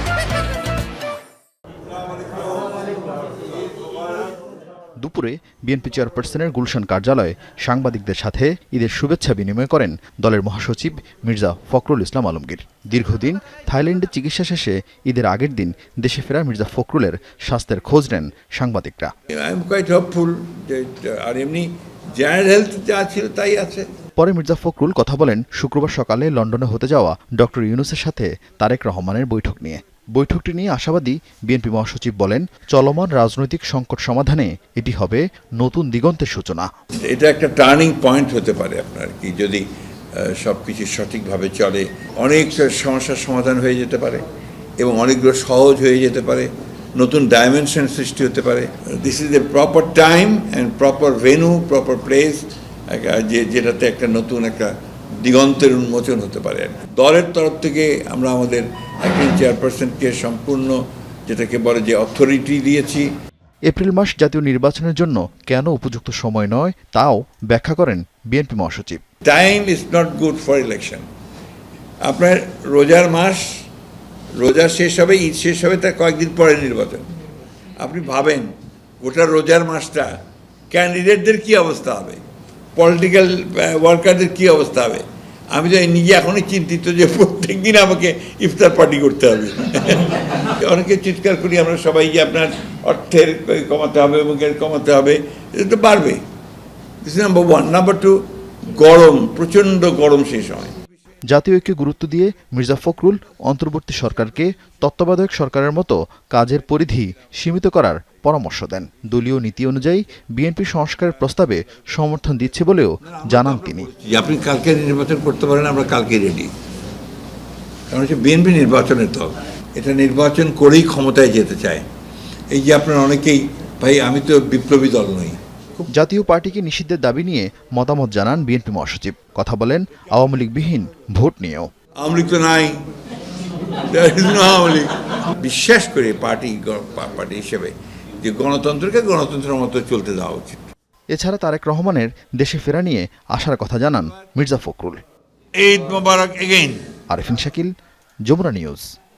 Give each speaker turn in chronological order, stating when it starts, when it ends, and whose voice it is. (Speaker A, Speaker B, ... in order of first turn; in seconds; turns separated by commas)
Speaker A: 5.0-19.1, Speaker B: 19.3-23.9, Speaker A: 24.2-36.7, Speaker B: 37.0-39.6, Speaker B: 40.1-44.2, Speaker B: 44.8-63.1, Speaker A: 63.7-69.0, Speaker B: 69.2-71.1, Speaker B: 72.0-73.6, Speaker B: 74.4-77.1, Speaker B: 77.8-78.5, Speaker B: 79.0-80.2, Speaker B: 80.7-82.2, Speaker B: 82.8-96.2, Speaker B: 97.0-100.7, Speaker A: 101.3-113.9, Speaker B: 113.1-116.5, Speaker B: 117.9-121.8, Speaker B: 122.5-125.4, Speaker A: 125.9-131.7, Speaker B: 132.0-132.8, Speaker B: 133.7-140.6, Speaker A: 141.1-145.0, Speaker B: 145.6-146.9, Speaker A: 147.1-147.7, Speaker A: 148.3-148.9